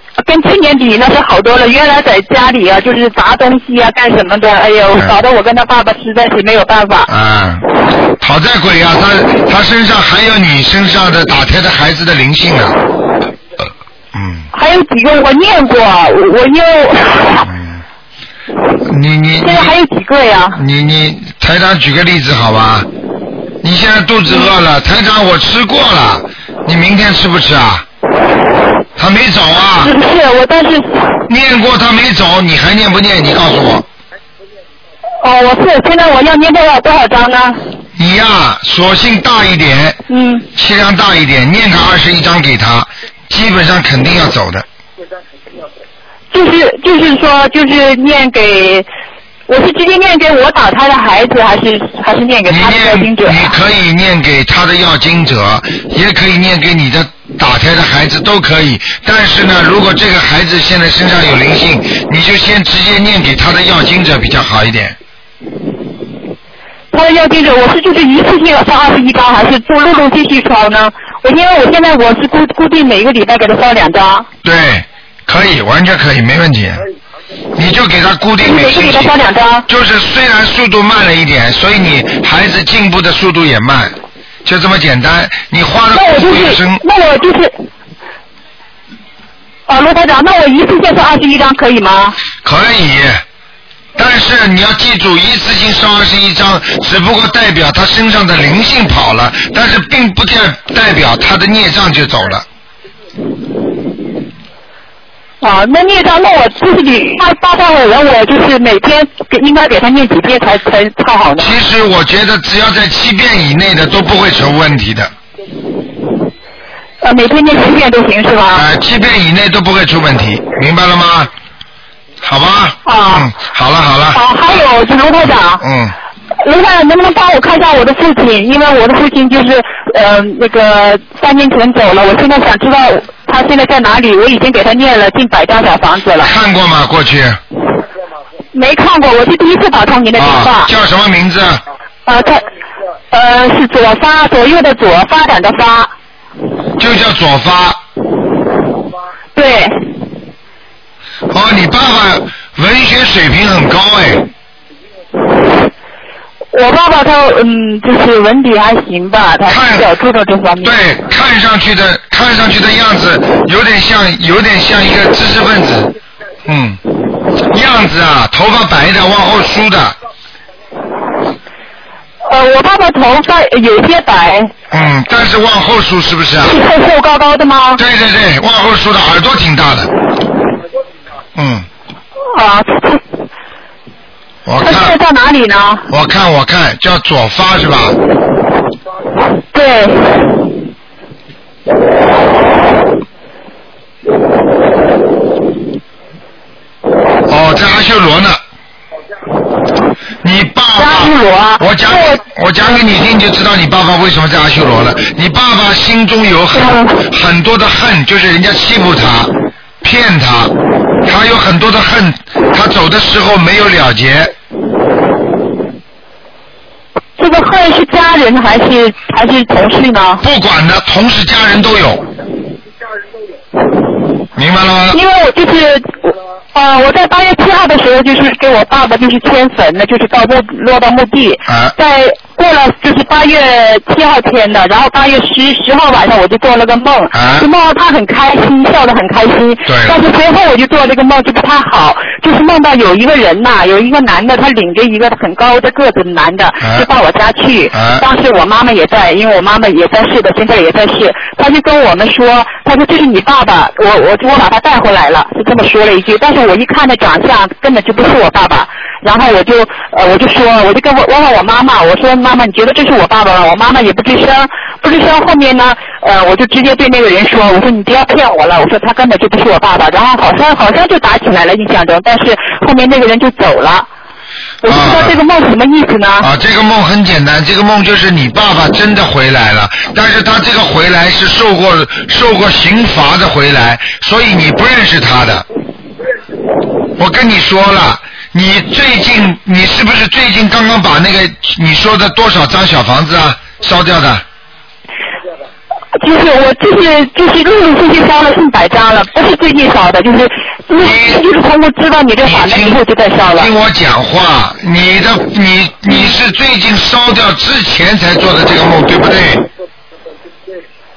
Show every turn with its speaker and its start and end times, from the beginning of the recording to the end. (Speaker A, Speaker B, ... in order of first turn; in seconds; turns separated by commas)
Speaker A: 0.2-7.1, Speaker B: 7.1-7.7, Speaker B: 8.2-12.8, Speaker B: 14.1-14.5, Speaker A: 14.5-17.5, Speaker B: 17.5-17.8, Speaker B: 18.8-19.7, Speaker A: 19.4-20.6, Speaker B: 20.5-22.9, Speaker B: 23.6-27.8, Speaker B: 29.0-29.9, Speaker A: 29.8-31.2, Speaker B: 31.3-33.9, Speaker A: 35.2-37.6, Speaker B: 38.0-40.0, Speaker A: 40.1-40.5, Speaker B: 40.5-44.6, Speaker A: 46.3-48.9, Speaker A: 49.5-53.5, Speaker B: 52.5-65.0, Speaker A: 66.9-74.3, Speaker B: 74.4-76.8, Speaker B: 77.5-79.1, Speaker A: 78.4-79.7, Speaker B: 79.7-86.8, Speaker A: 85.9-87.6, Speaker A: 89.7-92.2, Speaker B: 92.4-93.2, Speaker B: 94.0-102.5, Speaker A: 105.4-111.6, Speaker B: 111.4-115.1, Speaker A: 117.0-118.7, Speaker B: 118.5-121.3, Speaker B: 122.2-124.2, Speaker A: 122.8-123.3, Speaker A: 124.1-125.6, Speaker B: 125.6-125.9, Speaker A: 126.4-136.3, Speaker B: 136.2-137.4, Speaker A: 138.5-140.7, Speaker B: 140.2-141.6, Speaker A: 142.1-142.5, Speaker A: 143.1-145.9, Speaker B: 146.8-147.8, Speaker A: 149.3-149.9, Speaker B: 151.3-154.2, Speaker A: 156.5-160.8, Speaker B: 159.5-159.9, Speaker B: 160.6-165.9, Speaker B: 166.5-166.8, Speaker B: 167.5-169.9, Speaker A: 172.2-174.5, Speaker B: 174.7-176.6, Speaker A: 176.4-177.8, Speaker B: 177.8-179.9, Speaker B: 181.3-181.7, Speaker A: 182.3-183.0, Speaker B: 184.4-185.0, Speaker A: 184.6-185.9, Speaker B: 185.9-188.0, Speaker A: 189.5-190.3, Speaker B: 197.3-198.4, Speaker B: 200.2-210.5, Speaker A: 200.8-202.2, Speaker A: 206.5-207.0, Speaker B: 211.1-214.3, Speaker A: 217.2-220.2, Speaker B: 220.2-222.0, Speaker B: 224.3-225.0, Speaker A: 224.9-273.9, Speaker B: 231.5-231.7, Speaker B: 237.1-237.5, Speaker B: 239.7-240.0, Speaker B: 246.6-246.9, Speaker B: 247.7-248.1, Speaker A: 274.6-276.3, Speaker B: 274.6-275.2, Speaker B: 276.2-285.4, Speaker B: 287.0-294.2, Speaker A: 296.0-303.5, Speaker B: 300.8-301.2, Speaker B: 302.2-302.8, Speaker B: 303.3-309.4, Speaker A: 305.9-306.1